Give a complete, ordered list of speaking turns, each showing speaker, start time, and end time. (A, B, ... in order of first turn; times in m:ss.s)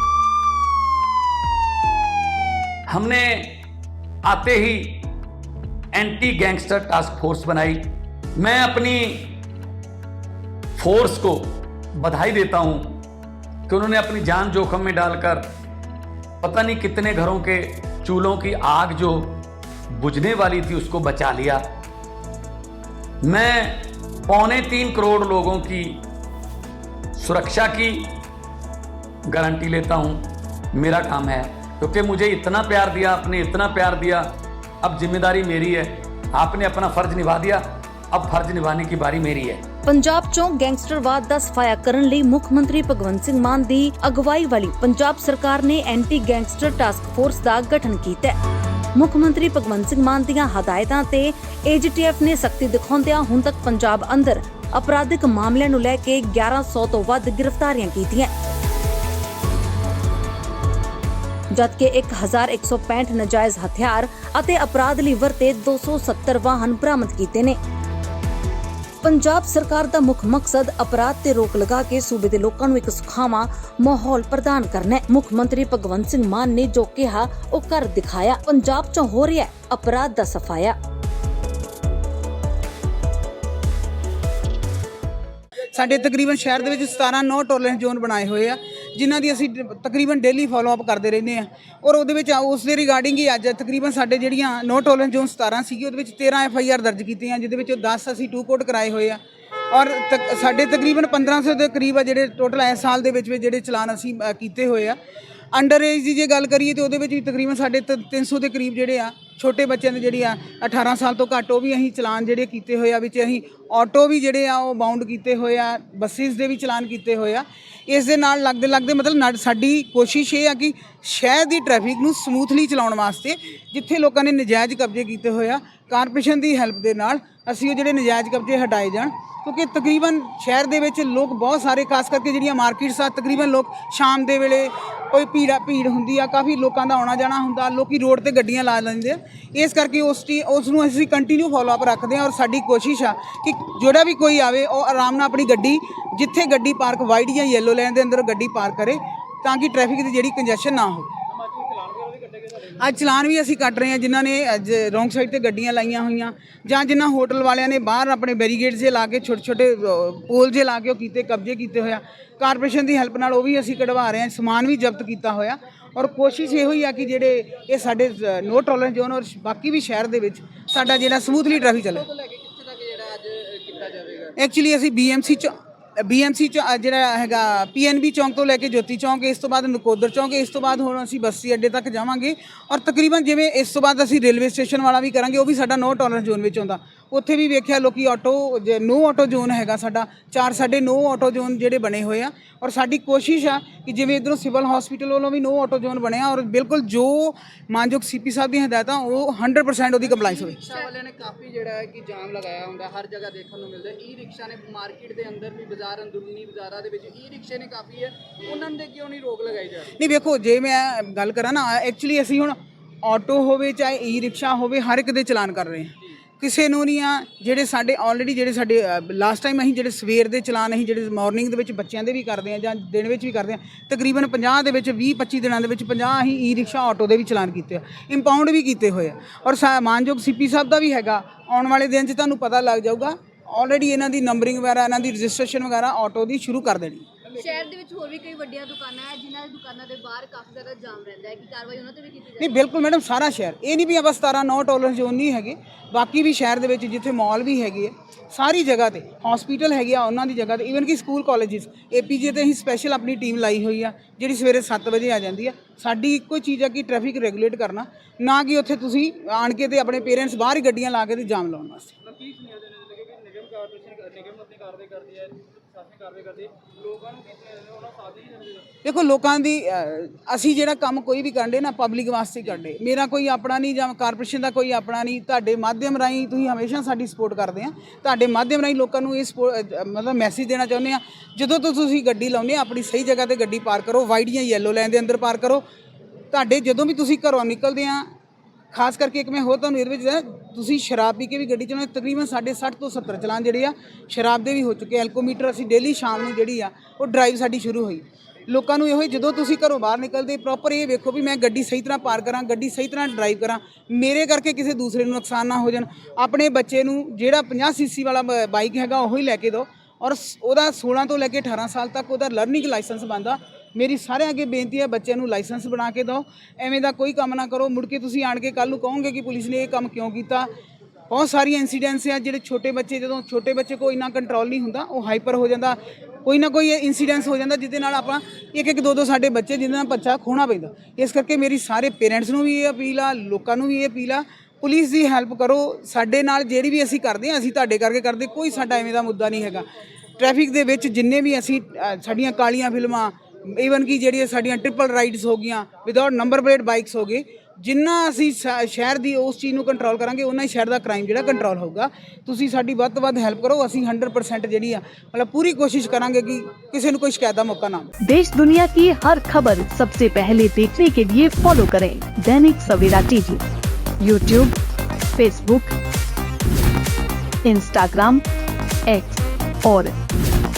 0:02.9-0:03.6 A
0:04.2-0:05.1 A
0:05.9-0:07.8 A
0:08.4-0:09.4 A
0:10.8-0:13.0 A
0:13.7-0:15.4 A
0:16.4-0:19.4 A
0:19.9-0:21.6 A
0:23.2-0:26.0 A
0:27.2-0:28.2 A
0:29.3-0:34.2 A
0:34.8-0:39.6 A
0:39.8-0:48.4 B
0:48.9-0:58.3 B
1:01.5-1:07.6 B
1:09.0-1:20.8 B
1:25.7-1:45.0 C
1:45.5-2:31.1 C
2:31.8-2:32.5 D
2:32.8-2:52.1 C
2:51.7-2:54.3 D
2:54.4-3:20.6 C
3:20.1-3:29.9 D
3:29.9-3:57.0 C
3:57.4-4:02.3 E
4:02.4-4:21.9 C
4:22.1-4:28.6 D
4:28.8-4:45.6 C
4:46.3-4:48.1 C
4:48.7-5:20.5 C
5:21.1-5:39.6 C
5:40.2-5:57.9 C
5:58.0-6:03.4 F
6:04.0-6:04.6 F
6:05.2-6:05.7 F
6:07.4-6:08.2 F
6:08.9-6:09.9 F